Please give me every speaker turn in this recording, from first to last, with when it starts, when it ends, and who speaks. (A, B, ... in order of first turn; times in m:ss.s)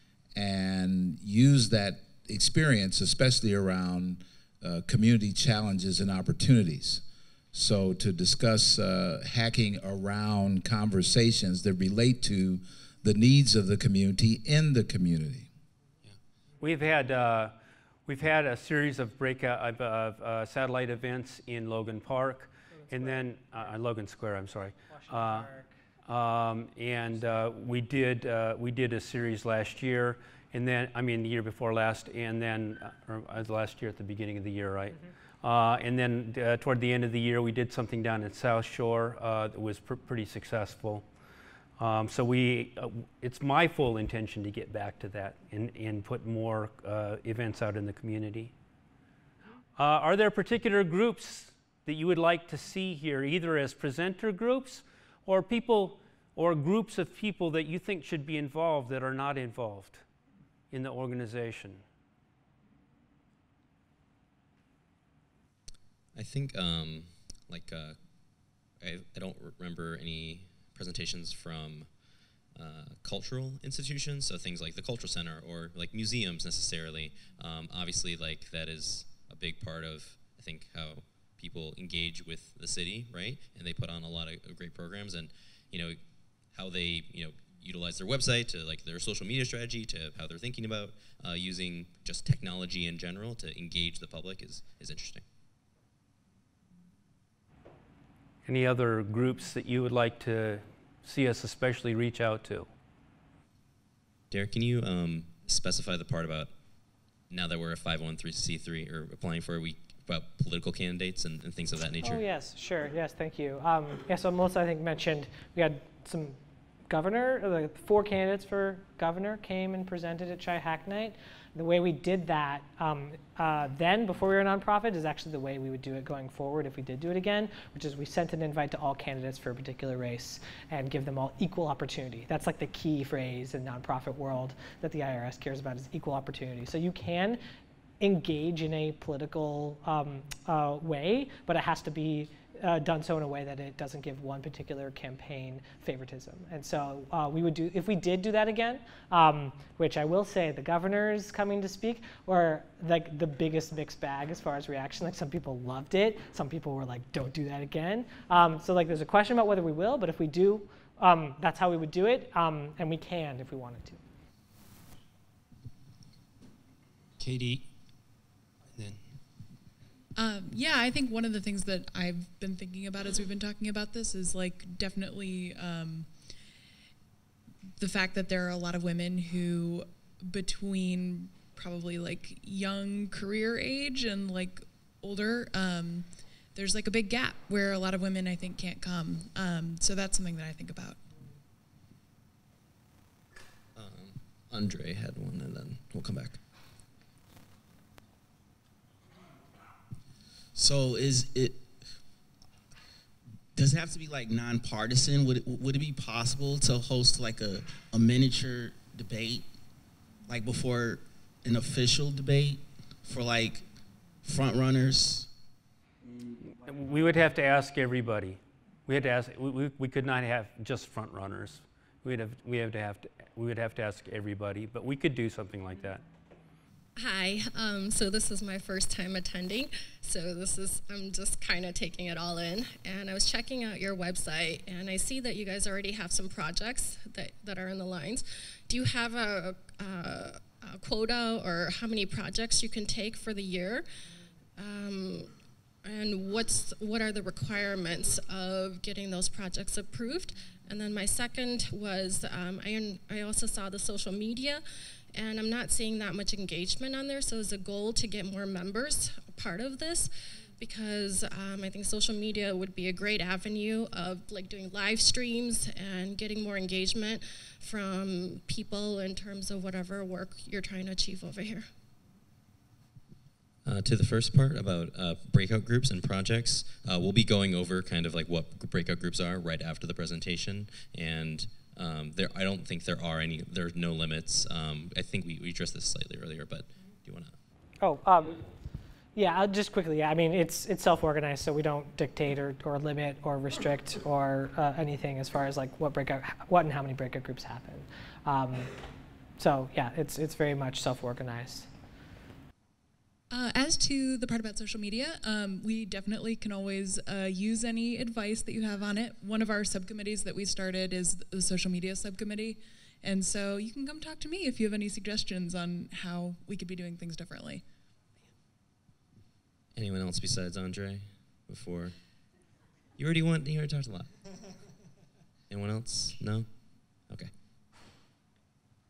0:00.3-0:15.5 A
0:16.6-0:17.5 B
0:18.0-0:25.5 B
0:25.1-0:25.7 C
0:26.0-0:41.0 B
0:41.8-0:48.5 B
0:49.8-1:00.0 B
1:00.7-1:01.8 B
1:06.1-1:08.0 D
1:08.8-1:11.9 D
1:12.5-1:26.0 D
1:26.5-1:35.2 D
1:38.4-1:42.7 B
1:44.3-1:46.5 D
1:47.3-1:52.2 D
1:52.0-1:56.4 C
1:56.9-2:17.4 C
2:18.0-2:44.0 C
2:47.2-2:47.7 B
2:48.8-2:49.0 B
2:50.1-2:56.2 E
2:57.8-3:11.0 E
3:13.7-3:16.4 D
3:20.5-3:21.6 F
3:23.6-3:29.5 F
3:30.3-3:33.6 F
3:34.2-3:35.3 F
3:36.4-3:46.0 B
3:47.0-4:03.8 G
4:04.6-4:14.6 G
4:15.1-4:31.7 G
4:33.6-4:47.3 D
4:47.8-4:48.4 C
4:49.1-4:58.7 C
4:59.4-5:01.7 C
5:03.3-5:17.6 E
5:19.7-5:21.9 D
5:23.0-5:24.1 D
5:25.5-5:26.5 D